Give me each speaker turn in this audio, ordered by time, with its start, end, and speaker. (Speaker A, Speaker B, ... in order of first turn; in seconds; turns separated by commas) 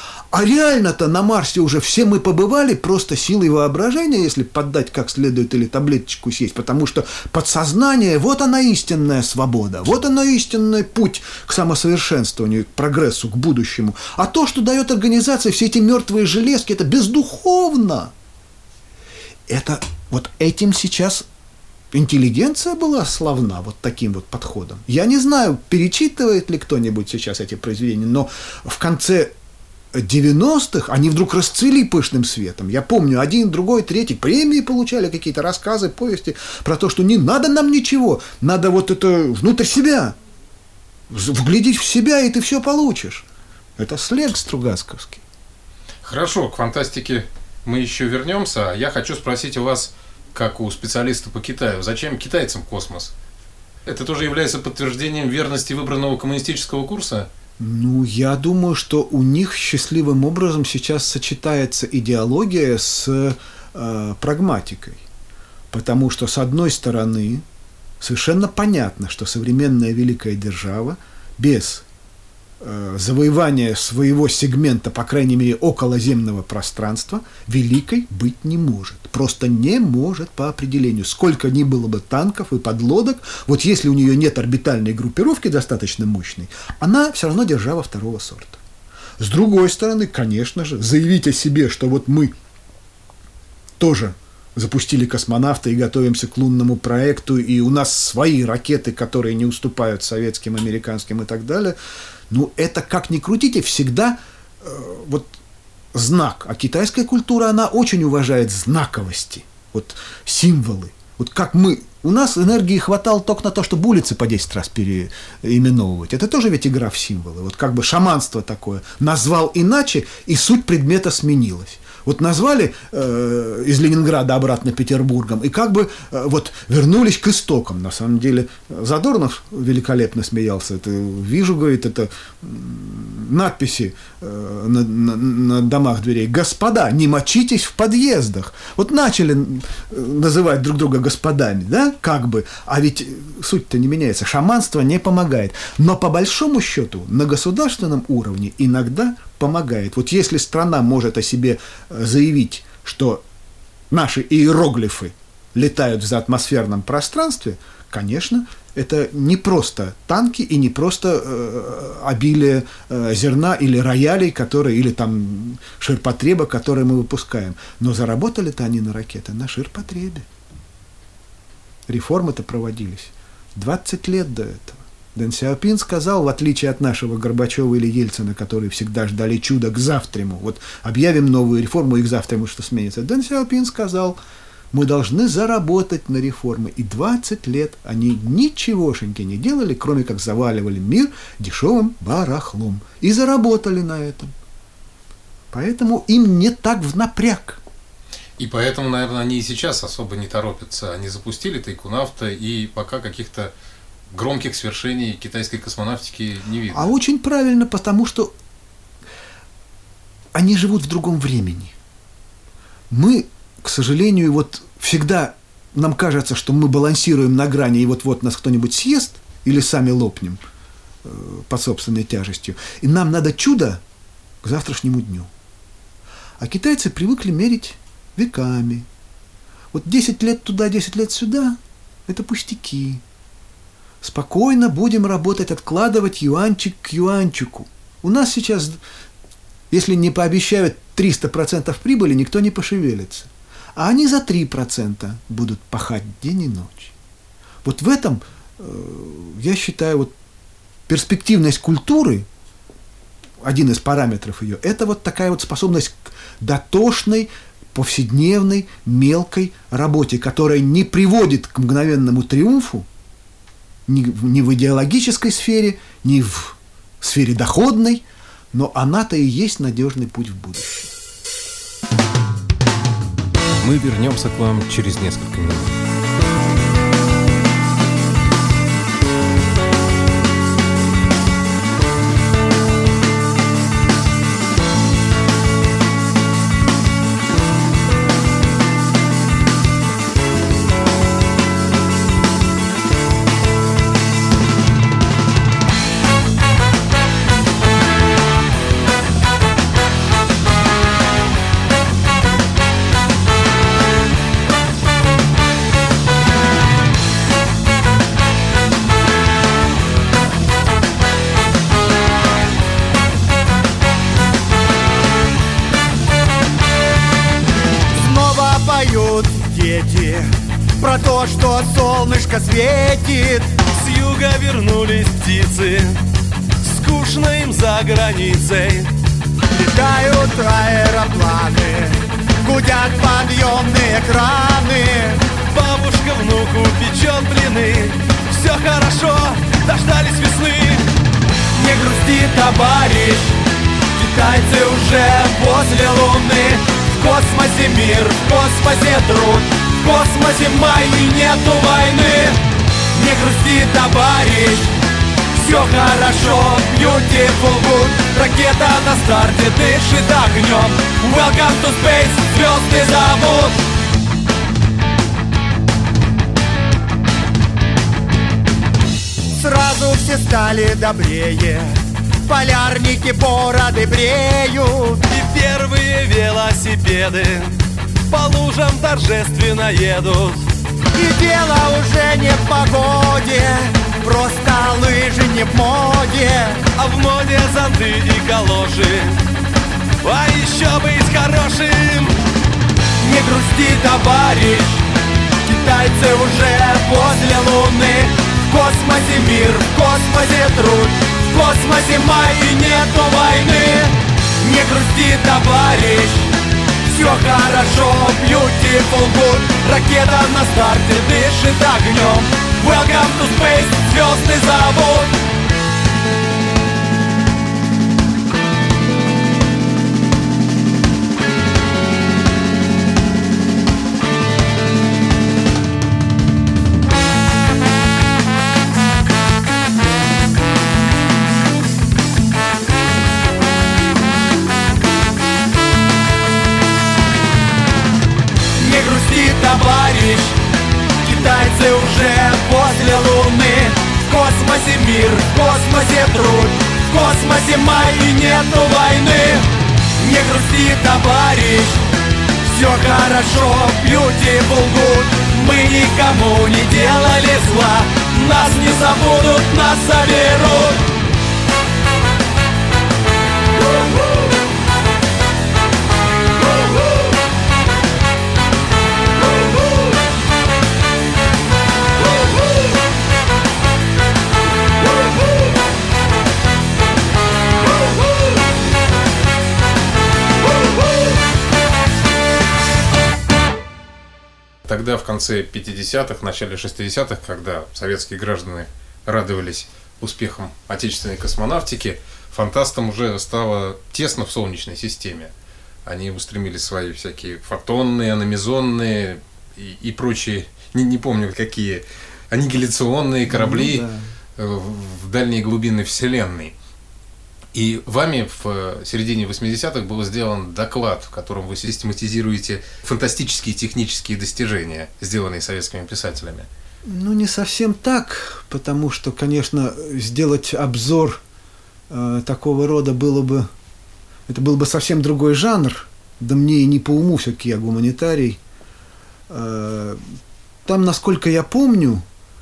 Speaker A: 0.3-18.1, Speaker A: 19.5-21.3, Speaker A: 21.9-29.3, Speaker A: 29.9-40.2, Speaker A: 41.1-43.2, Speaker A: 43.8-45.2, Speaker B: 46.0-53.1, Speaker B: 53.9-57.3, Speaker A: 57.6-65.0, Speaker A: 65.7-67.4, Speaker A: 68.0-71.8, Speaker A: 72.6-88.6, Speaker A: 89.2-92.3, Speaker A: 93.8-101.8, Speaker A: 102.3-105.3, Speaker A: 105.9-153.2, Speaker A: 153.9-170.2, Speaker A: 171.9-184.2, Speaker A: 184.7-194.3, Speaker A: 195.5-197.6, Speaker B: 198.4-203.5, Speaker B: 204.1-206.9, Speaker A: 206.7-208.3, Speaker A: 210.3-211.7, Speaker A: 212.9-220.4, Speaker A: 221.0-223.8, Speaker A: 224.4-225.3, Speaker A: 226.4-228.9, Speaker A: 229.7-233.0, Speaker A: 234.0-238.8, Speaker A: 239.7-246.9, Speaker A: 247.6-250.1, Speaker A: 250.9-252.3, Speaker A: 253.4-262.9, Speaker A: 263.9-270.9, Speaker B: 273.6-275.7, Speaker C: 317.9-323.6, Speaker D: 323.7-326.0, Speaker D: 326.6-328.9, Speaker C: 329.5-335.2, Speaker D: 335.4-340.9, Speaker C: 341.6-343.4, Speaker C: 343.9-352.4, Speaker C: 352.9-354.7, Speaker C: 355.3-363.6, Speaker C: 369.3-375.0, Speaker D: 375.0-377.6, Speaker D: 378.1-380.4, Speaker C: 380.9-386.7, Speaker D: 386.7-389.2, Speaker D: 390.0-392.2, Speaker C: 393.0-394.9, Speaker C: 395.4-406.3, Speaker C: 406.9-415.2, Speaker C: 438.6-440.4, Speaker C: 441.0-451.8, Speaker C: 452.4-460.9, Speaker B: 484.6-495.3, Speaker B: 495.9-506.5, Speaker A: 503.3-504.1, Speaker B: 507.5-516.5, Speaker A: 516.8-521.2, Speaker A: 521.9-523.5, Speaker A: 524.3-528.4, Speaker A: 529.3-530.0, Speaker A: 530.6-532.0